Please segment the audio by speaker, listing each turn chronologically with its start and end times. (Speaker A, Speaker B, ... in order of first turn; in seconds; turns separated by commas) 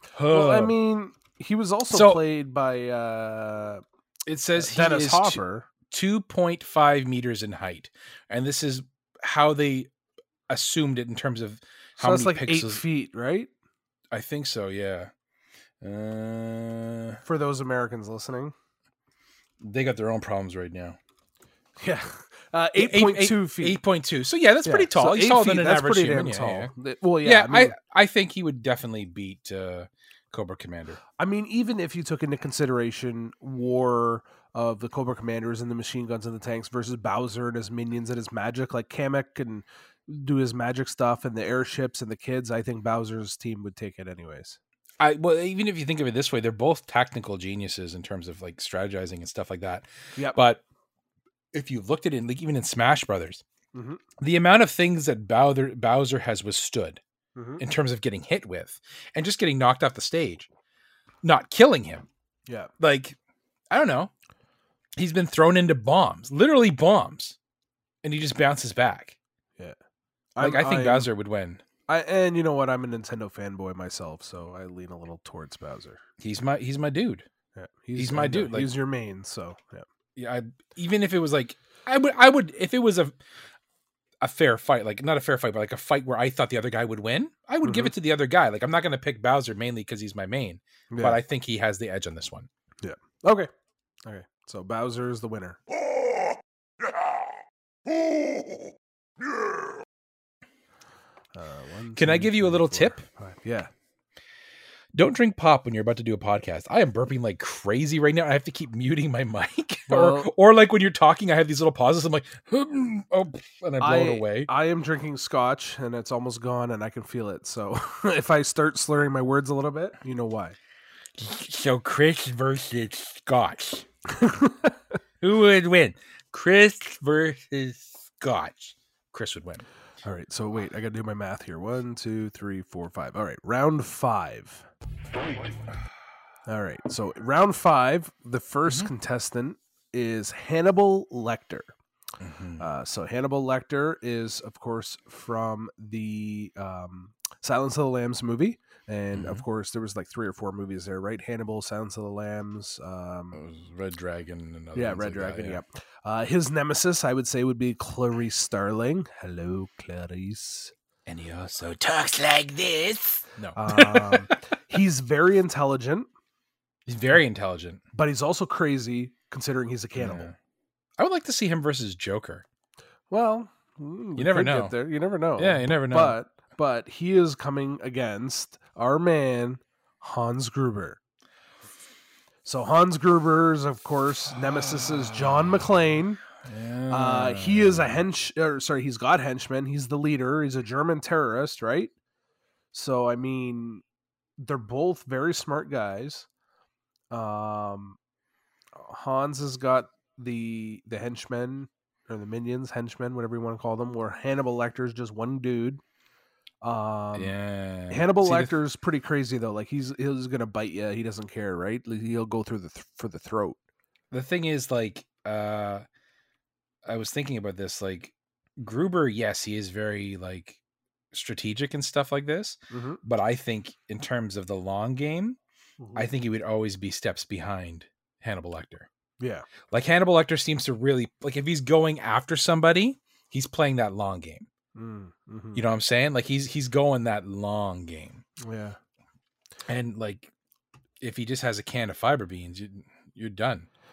Speaker A: 0.1-0.7, Speaker B: 0.3-3.8, Speaker A: 1.9-2.2, Speaker A: 4.3-9.9, Speaker B: 4.6-5.7, Speaker A: 10.5-12.8, Speaker B: 12.0-13.5, Speaker A: 14.1-15.1, Speaker A: 15.8-17.2, Speaker B: 17.2-18.5, Speaker A: 19.6-21.0, Speaker B: 21.8-23.8, Speaker A: 22.8-26.7, Speaker B: 24.6-27.8, Speaker A: 27.2-31.0, Speaker B: 31.2-44.6, Speaker A: 45.0-50.6, Speaker A: 51.5-53.4, Speaker B: 53.7-54.0, Speaker A: 54.2-57.0, Speaker B: 57.4-57.6, Speaker A: 57.6-60.5, Speaker A: 61.2-62.1, Speaker B: 62.5-62.7, Speaker A: 62.8-63.2, Speaker A: 63.7-64.1, Speaker A: 65.0-67.4, Speaker A: 68.0-69.2, Speaker B: 70.4-71.1, Speaker A: 70.4-71.6, Speaker B: 71.9-76.0, Speaker A: 76.2-77.3, Speaker B: 77.5-79.8, Speaker A: 78.0-78.7, Speaker A: 80.2-83.2, Speaker A: 84.2-92.5, Speaker B: 87.6-87.9, Speaker B: 90.9-91.2, Speaker B: 92.8-93.5, Speaker B: 94.1-95.6, Speaker B: 101.3-103.7, Speaker A: 102.0-103.0, Speaker A: 104.9-114.5, Speaker B: 109.9-110.3, Speaker B: 113.8-120.6, Speaker A: 121.2-123.9, Speaker B: 124.1-124.8, Speaker A: 125.2-129.7, Speaker B: 130.0-134.7, Speaker B: 136.5-141.7, Speaker A: 142.2-142.6, Speaker B: 142.6-153.4, Speaker A: 149.1-149.4, Speaker A: 153.3-155.6, Speaker B: 154.8-160.7, Speaker A: 161.1-164.3, Speaker B: 163.6-166.1, Speaker A: 166.9-167.8, Speaker B: 167.9-170.3, Speaker A: 170.0-170.3, Speaker A: 171.0-172.4, Speaker B: 173.1-181.0, Speaker A: 174.2-174.8, Speaker A: 175.4-176.2, Speaker B: 182.4-186.2, Speaker A: 184.8-185.6, Speaker A: 186.4-188.0, Speaker B: 186.9-191.9, Speaker B: 192.7-193.8, Speaker B: 194.4-196.3, Speaker B: 197.1-198.0, Speaker B: 198.8-205.8, Speaker B: 206.6-207.3, Speaker A: 207.2-208.6, Speaker B: 207.9-213.6, Speaker A: 214.1-215.8, Speaker A: 216.8-220.6, Speaker A: 221.1-225.4, Speaker B: 222.7-223.0, Speaker B: 225.8-226.1, Speaker A: 225.9-228.9, Speaker B: 229.2-229.5, Speaker A: 229.7-234.5, Speaker B: 234.8-235.6, Speaker A: 235.6-238.2, Speaker B: 238.4-238.8, Speaker A: 239.7-240.3, Speaker A: 241.0-243.7